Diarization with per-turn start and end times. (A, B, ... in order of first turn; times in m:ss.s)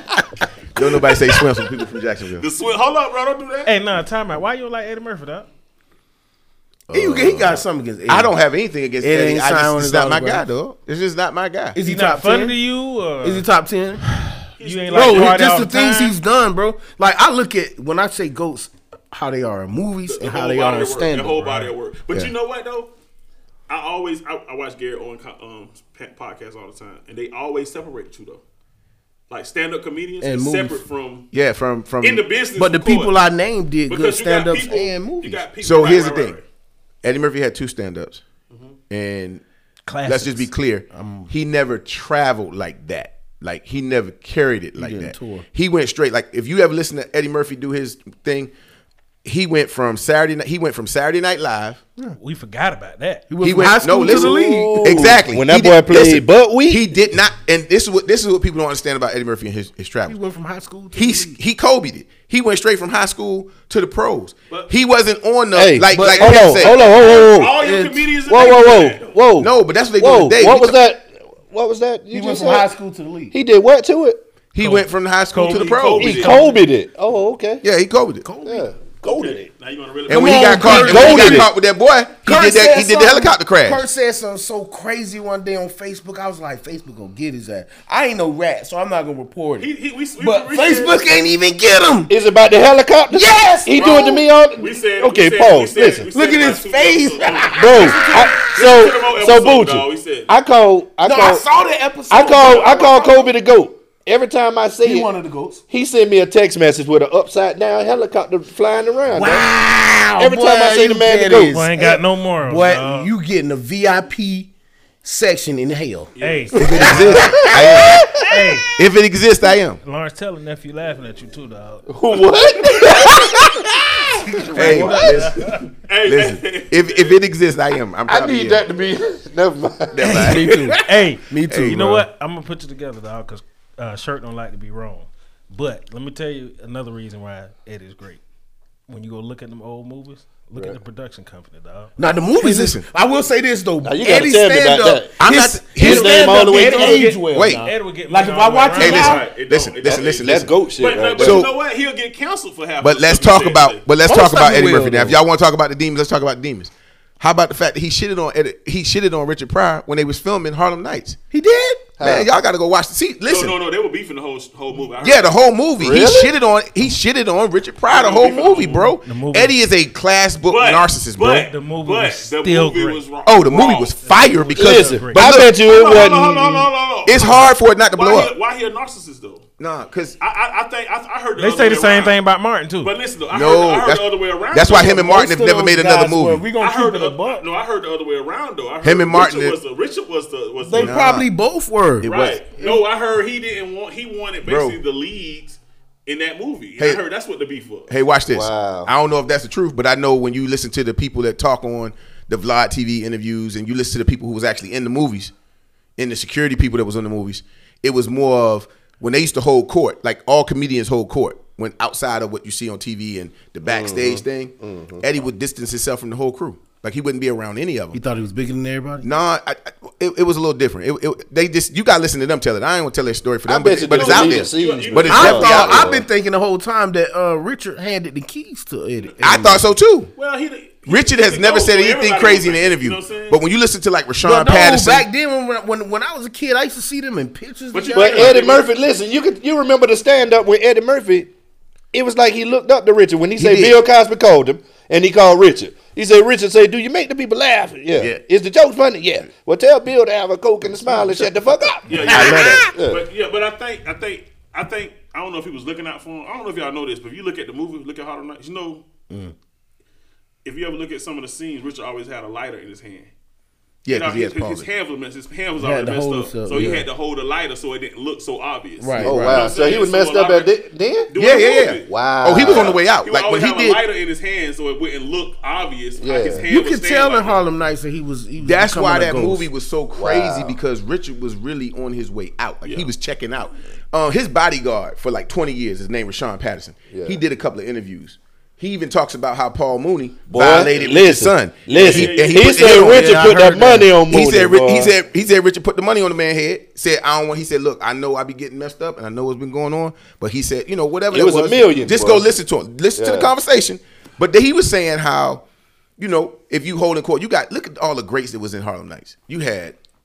0:00.7-0:02.4 A
0:02.4-0:03.7 B
0:03.6-0:05.5 C
0:06.9-0:08.4 D
0:06.9-0:11.8 A
0:09.0-0:10.4 D
0:11.7-0:12.6 D
0:11.8-0:13.4 C
0:13.2-0:14.0 D
0:14.6-0:15.4 B
0:14.6-0:16.2 C
0:14.9-0:21.6 D
0:20.1-0:22.9 B
0:23.7-0:28.4 B
0:29.3-0:31.3 B
0:30.2-0:30.8 D
0:31.3-0:32.2 A
0:32.0-0:33.2 B
0:32.6-0:35.4 D
0:33.9-0:36.4 B
0:35.6-0:36.4 A
0:37.0-0:38.2 A
0:38.5-0:38.8 B
0:38.9-0:39.4 A
0:39.9-0:40.4 C
0:40.0-0:48.5 A
0:40.9-0:41.3 D
0:44.8-0:45.4 D
0:49.2-0:51.8 A
0:52.2-0:53.3 C
0:53.3-0:55.1 D
0:53.4-1:00.2 A
0:54.0-0:56.8 E
1:00.1-1:01.4 D
1:00.9-1:06.8 A
1:05.5-1:07.6 E
1:05.9-1:08.1 D
1:06.6-1:09.2 B
1:08.3-1:12.7 E
1:09.4-1:10.8 A
1:12.1-1:13.3 D
1:13.3-1:14.3 E
1:14.5-1:16.2 A
1:14.6-1:16.6 C
1:15.4-1:16.4 B
1:16.0-1:17.6 E
1:17.6-1:18.2 A
1:18.2-1:18.7 D
1:18.4-1:19.5 E
1:19.0-1:21.2 B
1:20.1-1:23.8 A
1:20.1-1:21.5 D
1:20.6-1:21.5 E
1:22.2-1:32.1 D
1:29.6-1:31.0 B
1:32.1-1:36.1 E
1:33.1-1:34.1 D
1:33.7-1:40.3 B
1:36.1-1:38.6 D
1:37.5-1:41.4 E
1:41.0-1:43.3 D
1:42.1-1:45.1 E
1:44.8-1:45.6 D
1:45.7-1:49.5 E
1:49.1-1:54.5 D
1:50.2-1:51.9 E
1:51.5-1:53.1 C
1:55.0-1:56.1 D
1:56.2-1:57.2 B
1:56.2-1:57.5 C
1:56.5-1:58.2 A
1:56.7-1:58.5 D
1:58.2-1:58.7 C
1:58.8-1:59.8 A
1:59.8-2:01.9 C
2:01.9-2:04.9 E
2:04.4-2:05.3 D
2:04.5-2:08.6 A
2:04.6-2:05.7 C
2:05.8-2:07.2 B
2:08.1-2:10.5 E
2:09.9-2:10.6 A
2:10.0-2:12.0 D
2:10.7-2:18.2 C
2:11.5-2:11.9 A
2:18.9-2:21.9 C
2:22.0-2:29.2 D
2:22.4-2:22.8 A
2:23.8-2:25.1 E
2:25.2-2:27.6 A
2:25.8-2:27.2 E
2:26.4-2:29.2 C
2:28.8-2:30.5 A
2:28.8-2:33.8 B
2:29.8-2:31.5 E
2:31.1-2:31.5 A
2:32.8-2:41.2 A
2:34.0-2:35.2 D
2:41.3-2:41.9 D
2:42.0-2:42.3 E
2:42.0-2:43.6 A
2:43.3-2:45.3 B
2:45.0-2:51.5 A
2:45.8-2:46.3 E
2:47.9-2:48.9 B
2:48.6-2:49.5 C
2:50.5-2:53.9 B
2:51.4-2:53.0 C
2:53.2-2:55.5 A
2:54.0-2:55.4 C
2:54.6-2:56.7 E
2:55.4-2:59.4 B
2:57.0-2:58.3 A
2:59.6-3:00.2 A
3:00.2-3:02.2 B
3:01.4-3:02.9 C
3:02.8-3:05.1 B
3:03.3-3:06.4 A
3:04.7-3:07.4 D
3:06.6-3:11.0 B
3:08.8-3:09.6 A
3:10.6-3:12.8 D
3:10.7-3:11.3 A
3:12.0-3:12.4 A
3:12.0-3:17.9 B
3:14.4-3:14.8 A
3:17.9-3:25.3 A
3:18.3-3:18.9 E
3:26.0-3:38.0 A
3:33.6-3:35.0 E
3:37.9-3:39.1 D
3:39.0-3:46.0 A
3:43.5-3:46.0 E
3:43.8-3:45.7 B
3:45.0-3:49.6 D
3:49.2-3:50.1 A
3:50.2-3:53.4 B
3:50.8-3:55.1 A
3:54.2-3:58.4 D
3:57.7-3:58.7 B
3:57.9-4:01.3 E
4:01.9-4:13.0 E
4:03.4-4:03.7 D
4:03.4-4:03.7 A
4:11.9-4:18.8 B
4:12.0-4:12.7 A
4:20.4-4:23.1 B
4:23.8-4:24.7 A
4:23.9-4:30.5 B
4:25.6-4:26.9 D
4:28.8-4:29.5 D
4:29.0-4:31.1 E
4:31.1-4:37.4 B
4:31.2-4:33.8 A
4:31.8-4:32.8 E
4:36.0-4:36.5 E
4:36.5-4:39.5 D
4:38.4-4:53.5 A
4:39.9-4:40.6 E
4:42.6-4:42.9 B
4:46.9-4:47.2 E
4:50.3-4:54.9 E
4:51.7-4:52.9 B
4:52.8-4:53.9 D
4:54.0-5:05.4 A
5:01.1-5:02.3 E
5:03.0-5:03.3 E
5:06.0-5:09.8 A